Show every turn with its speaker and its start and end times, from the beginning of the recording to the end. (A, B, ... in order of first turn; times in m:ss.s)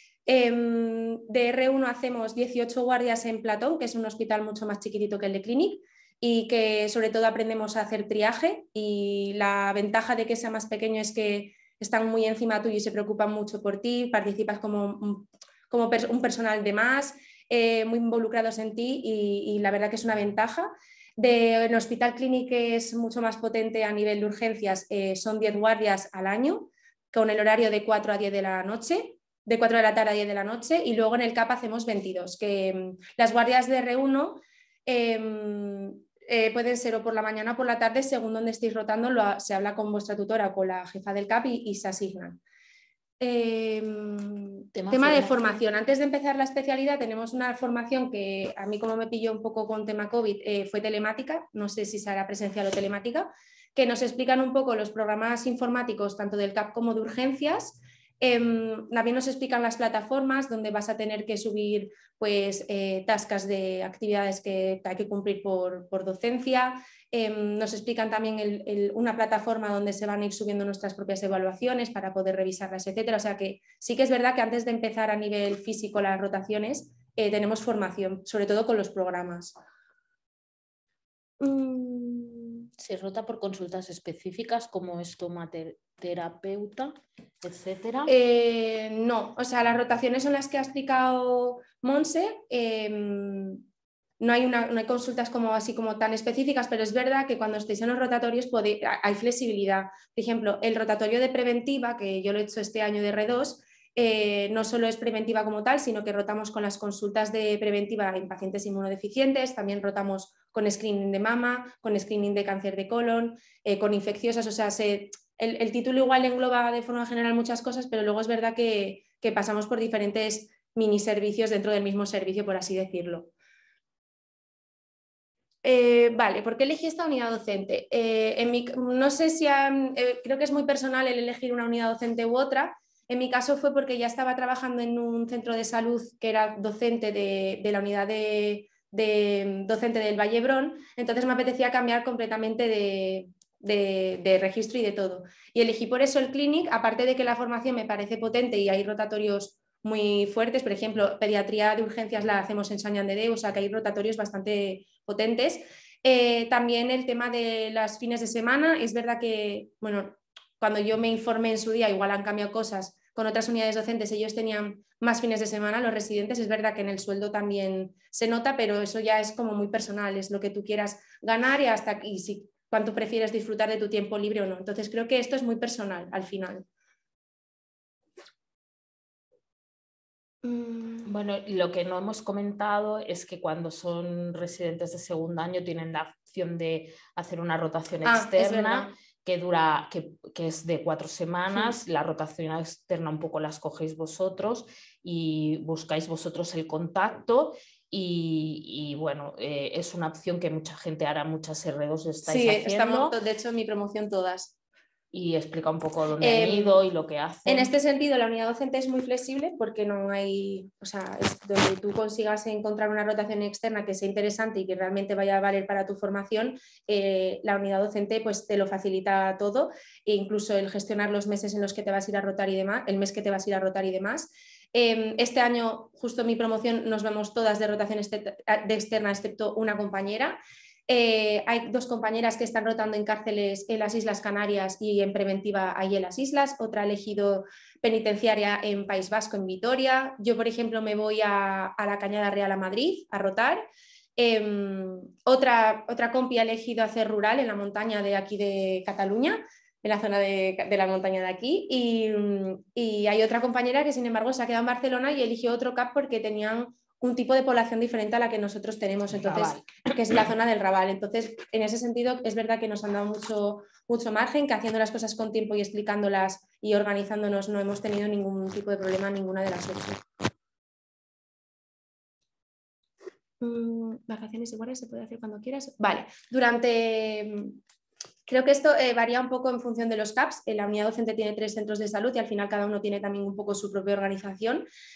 0:00.2-0:42.4 A
0:43.2-1:19.6 A
0:44.7-0:45.4 B
1:21.4-1:22.7 A
1:22.8-1:28.1 B
1:28.1-1:33.6 A
1:34.2-2:03.3 A
2:05.6-2:56.7 A
3:00.4-3:01.1 A
3:01.0-3:23.1 B
3:08.0-3:08.9 A
3:22.2-3:24.5 A
3:25.1-3:27.7 B
3:26.2-3:26.8 A
3:27.4-4:03.6 A
4:04.2-4:30.0 A
4:19.2-4:19.8 B
4:33.4-4:37.6 A
4:38.3-4:44.6 A